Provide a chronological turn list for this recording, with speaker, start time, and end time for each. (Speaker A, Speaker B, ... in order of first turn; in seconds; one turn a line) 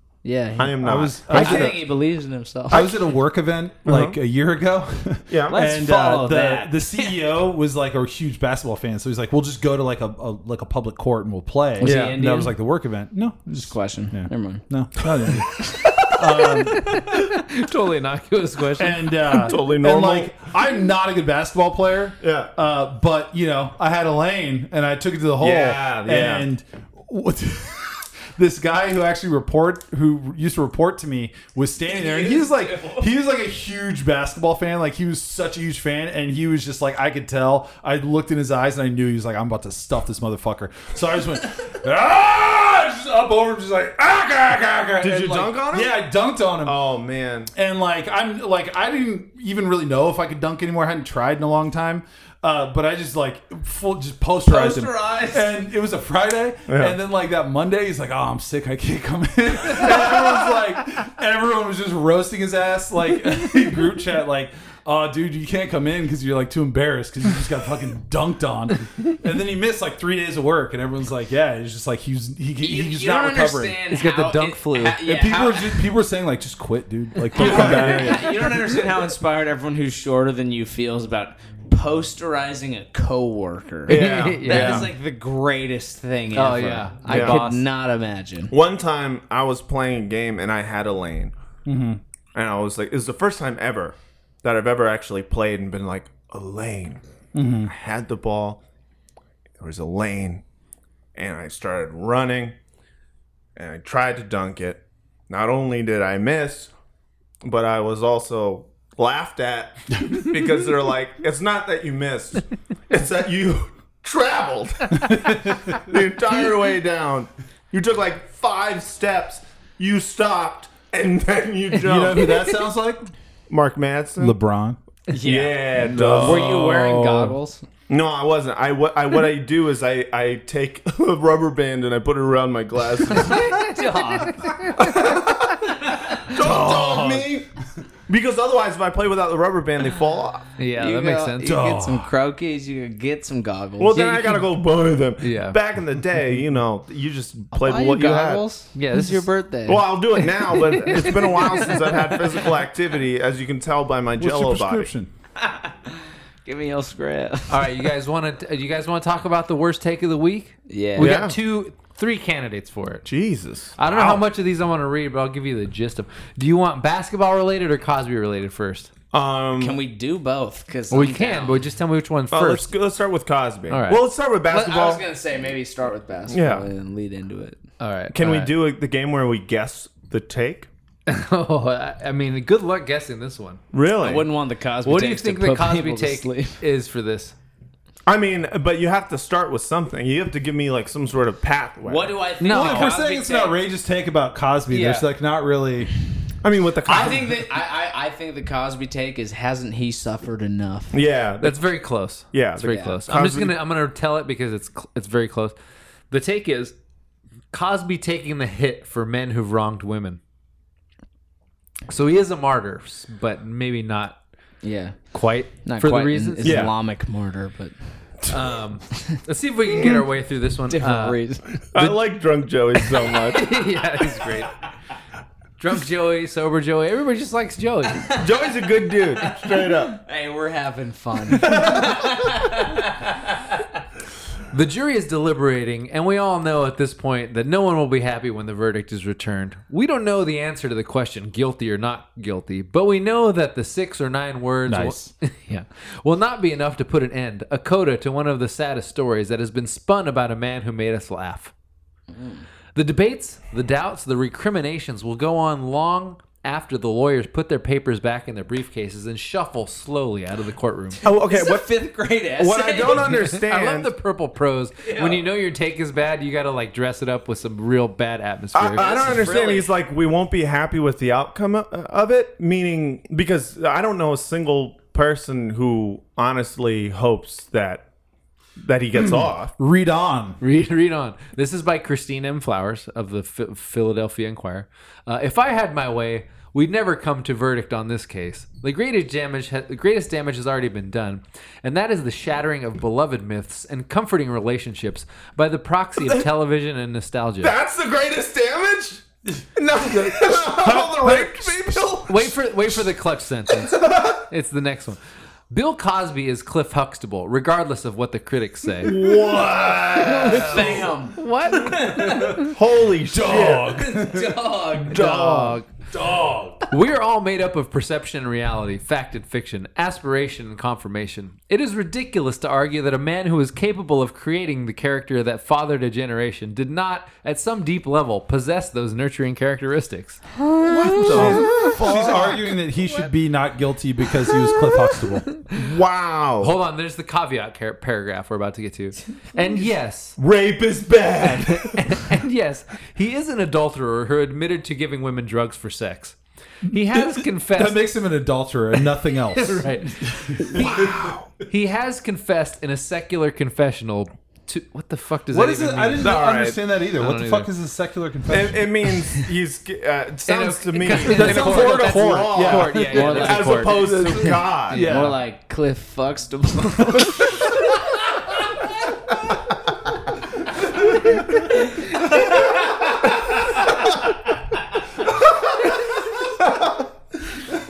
Speaker A: 0.2-2.9
Speaker B: 0.6-1.8
Speaker C: 0.8-1.8
Speaker B: 2.7-3.1
Speaker C: 2.7-17.0
Speaker B: 3.8-4.2
Speaker B: 5.3-5.7
Speaker A: 5.5-7.1
Speaker A: 11.8-12.5
Speaker B: 11.8-12.2
Speaker A: 13.5-14.6
Speaker D: 16.4-19.4
Speaker C: 18.8-46.8
Speaker B: 19.3-20.3
Speaker B: 22.2-22.5
Speaker B: 25.4-26.4
Speaker A: 31.9-33.1
Speaker B: 45.0-47.5
Speaker C: 47.5-73.8
Speaker A: 54.5-55.5
Speaker B: 56.7-57.0
Speaker A: 72.6-75.9
Speaker D: 73.9-75.0
Speaker C: 75.0-78.5
Speaker A: 77.3-88.5
Speaker B: 77.4-78.4
Speaker B: 83.9-84.9
Speaker D: 83.9-84.9
Speaker D: 86.3-87.7
Speaker B: 87.1-87.4
Speaker B: 88.5-91.3
Speaker C: 91.6-92.0
Speaker B: 92.3-97.0
Speaker C: 97.3-97.7
Speaker B: 97.6-98.6
Speaker B: 99.6-100.4
Speaker B: 101.2-102.5
Speaker B: 103.5-106.7
Speaker B: 107.4-122.5
Speaker C: 115.0-115.7
Speaker C: 121.8-123.1
Speaker B: 123.5-124.3
Speaker C: 124.2-124.8
Speaker A: 125.1-127.6
Speaker B: 125.2-126.7
Speaker C: 125.8-127.3
Speaker B: 127.9-133.6
Speaker D: 133.1-135.0
Speaker B: 134.8-137.5
Speaker C: 136.3-137.4
Speaker B: 138.1-140.4
Speaker D: 140.6-141.6
Speaker A: 140.8-144.0
Speaker C: 141.4-142.1
Speaker B: 143.8-148.4
Speaker D: 143.9-144.5
Speaker D: 145.2-145.6
Speaker A: 147.5-149.9
Speaker D: 148.7-149.3
Speaker B: 149.7-154.9
Speaker D: 150.6-151.8
Speaker A: 151.3-151.7
Speaker C: 154.2-155.1
Speaker A: 155.4-157.8
Speaker D: 157.5-163.1
Speaker A: 160.7-161.2
Speaker B: 161.0-161.4
Speaker B: 163.0-164.1
Speaker D: 163.8-168.9
Speaker C: 163.9-164.2
Speaker B: 169.1-169.8
Speaker A: 169.6-171.6
Speaker D: 170.9-172.7
Speaker B: 172.3-175.1
Speaker D: 173.7-174.0
Speaker A: 174.5-177.6
Speaker B: 176.3-176.7
Speaker D: 177.8-178.5
Speaker B: 178.1-180.7
Speaker D: 181.1-183.6
Speaker B: 183.7-184.3
Speaker A: 184.0-186.6
Speaker D: 184.8-187.3
Speaker B: 188.1-192.2
Speaker A: 191.8-193.6
Speaker D: 192.4-192.9
Speaker C: 192.4-195.9
Speaker A: 194.7-195.1
Speaker B: 196.4-197.5
Speaker A: 196.8-201.0
Speaker B: 200.9-201.6
Speaker D: 201.4-205.5
Speaker B: 202.3-203.5
Speaker A: 202.6-202.9
Speaker D: 206.1-206.7
Speaker D: 207.5-210.2
Speaker D: 211.9-214.2
Speaker A: 214.6-215.0
Speaker D: 215.1-216.7
Speaker A: 215.6-217.7
Speaker B: 216.4-216.7
Speaker D: 218.3-221.2
Speaker A: 220.7-221.6
Speaker B: 221.7-223.6
Speaker D: 221.7-222.0
Speaker D: 223.0-224.5
Speaker D: 225.6-228.2
Speaker B: 228.1-230.0
Speaker A: 229.4-233.5
Speaker D: 234.5-251.5
Speaker C: 244.7-245.1
Speaker A: 252.1-252.4
Speaker D: 252.7-261.0
Speaker A: 261.0-263.2
Speaker B: 261.0-261.7
Speaker B: 262.4-263.9
Speaker D: 262.9-269.3
Speaker A: 264.8-265.2
Speaker B: 268.5-277.9
Speaker A: 268.8-269.7
Speaker B: 278.6-279.5
Speaker C: 278.9-280.4
Speaker D: 280.4-297.5
Speaker B: 297.4-299.0
Speaker C: 299.3-302.2
Speaker B: 299.6-302.3
Speaker D: 302.1-305.0
Speaker D: 305.5-309.0
Speaker B: 308.8-310.9
Speaker C: 309.0-310.9
Speaker D: 310.1-312.5
Speaker A: 310.3-312.4
Speaker C: 312.0-312.4
Speaker B: 312.4-313.8
Speaker C: 313.1-314.4
Speaker A: 313.4-315.0
Speaker D: 314.9-315.7
Speaker B: 314.9-315.6
Speaker C: 315.9-316.7
Speaker D: 316.7-330.3
Speaker B: 330.6-332.5
Speaker D: 330.9-331.6
Speaker C: 331.0-335.3
Speaker B: 335.5-336.5
Speaker D: 336.4-340.2
Speaker B: 340.2-342.0
Speaker D: 341.2-347.9
Speaker C: 346.7-351.1
Speaker D: 349.3-356.2
Speaker B: 350.5-351.3
Speaker C: 355.3-358.7
Speaker B: 356.0-356.6
Speaker D: 356.9-357.5
Speaker B: 358.3-364.8
Speaker D: 360.3-365.1
Speaker C: 360.9-365.1
Speaker A: 362.9-363.8
Speaker A: 364.7-367.4
Speaker B: 375.1-375.8
Speaker B: 376.4-376.8